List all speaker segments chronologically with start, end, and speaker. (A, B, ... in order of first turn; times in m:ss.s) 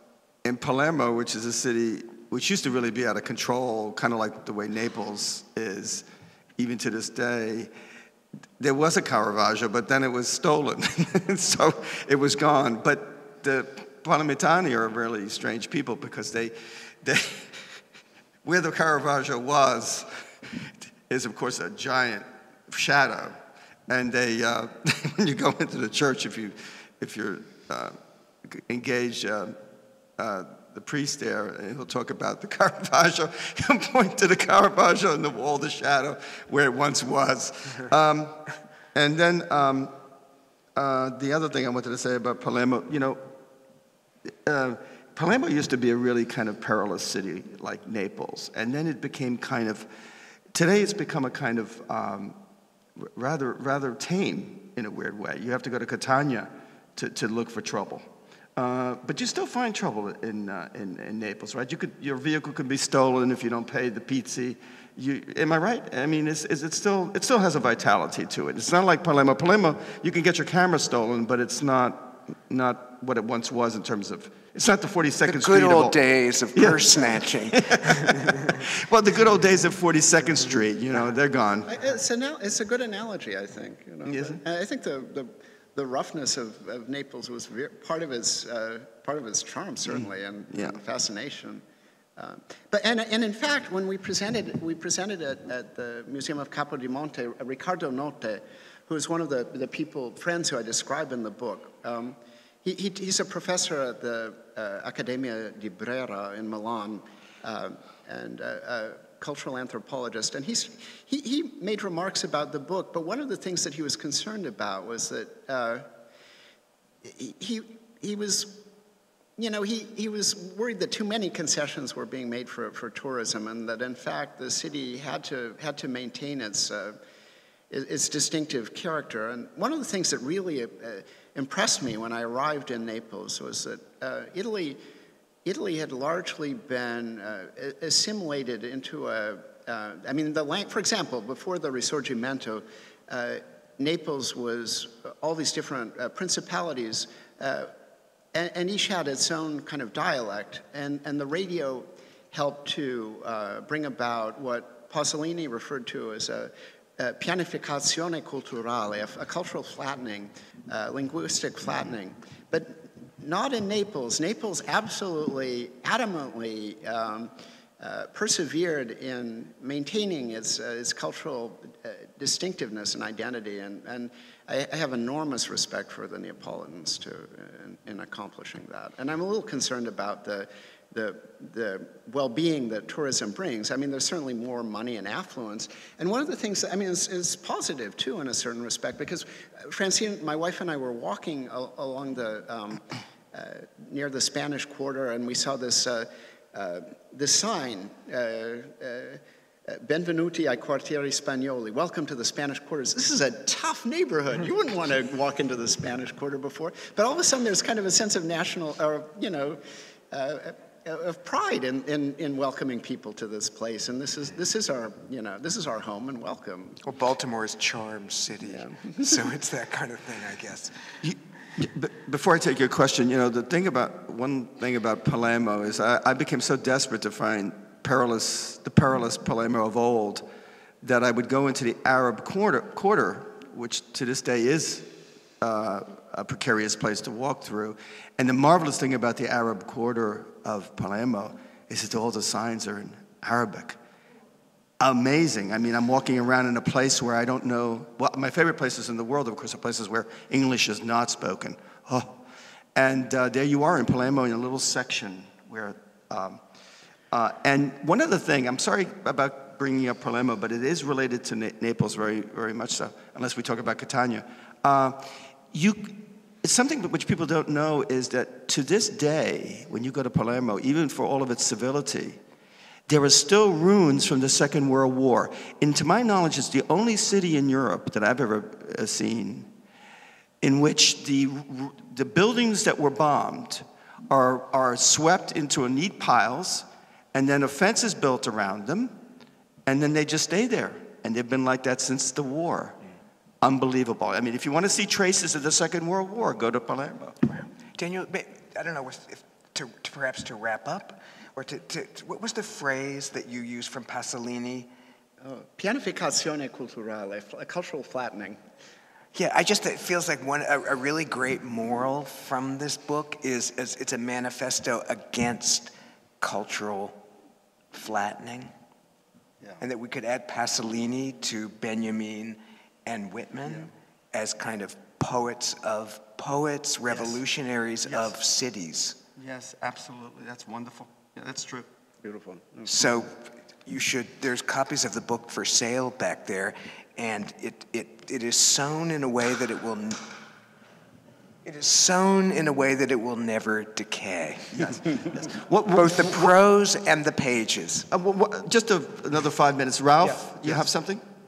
0:00.4-0:06.1 A
0:06.6-0:07.7 A
0:08.6-0:17.8 A
0:18.4-0:29.6 A
0:30.2-0:40.0 A
0:40.8-0:43.2 A
0:44.3-0:49.9 A
0:50.5-0:52.4 A
0:53.0-1:16.0 A
1:15.3-1:18.6 B
1:16.6-1:21.7 A
1:21.7-1:31.6 C
1:24.1-1:24.4 A
1:30.5-1:30.8 A
1:32.2-1:55.9 C
1:57.0-1:58.7 C
1:59.4-2:07.0 C
2:07.7-2:14.8 C
2:15.4-2:27.7 C
2:28.3-3:36.8 C
3:36.8-3:40.8 B
3:38.5-3:39.1 C
3:41.0-3:50.3 A
3:50.8-4:03.8 A
4:04.8-4:12.2 A
4:12.8-4:16.4 A
4:17.1-4:32.2 A
4:32.9-4:39.5 A
4:40.4-4:49.0 A
4:49.7-4:52.8 A
4:53.4-4:57.2 A
4:57.3-5:04.7 B
5:05.2-5:08.4 C
5:09.1-5:17.0 B
5:17.7-5:18.5 B
5:19.6-5:29.0 B
5:26.9-5:27.2 A
5:27.9-5:28.1 A
5:29.2-5:31.7 A
5:32.0-5:32.7 C
5:32.7-5:40.1 B
5:41.4-5:47.9 B
5:44.5-5:46.4 A
5:47.9-5:51.0 A
5:50.0-5:50.7 B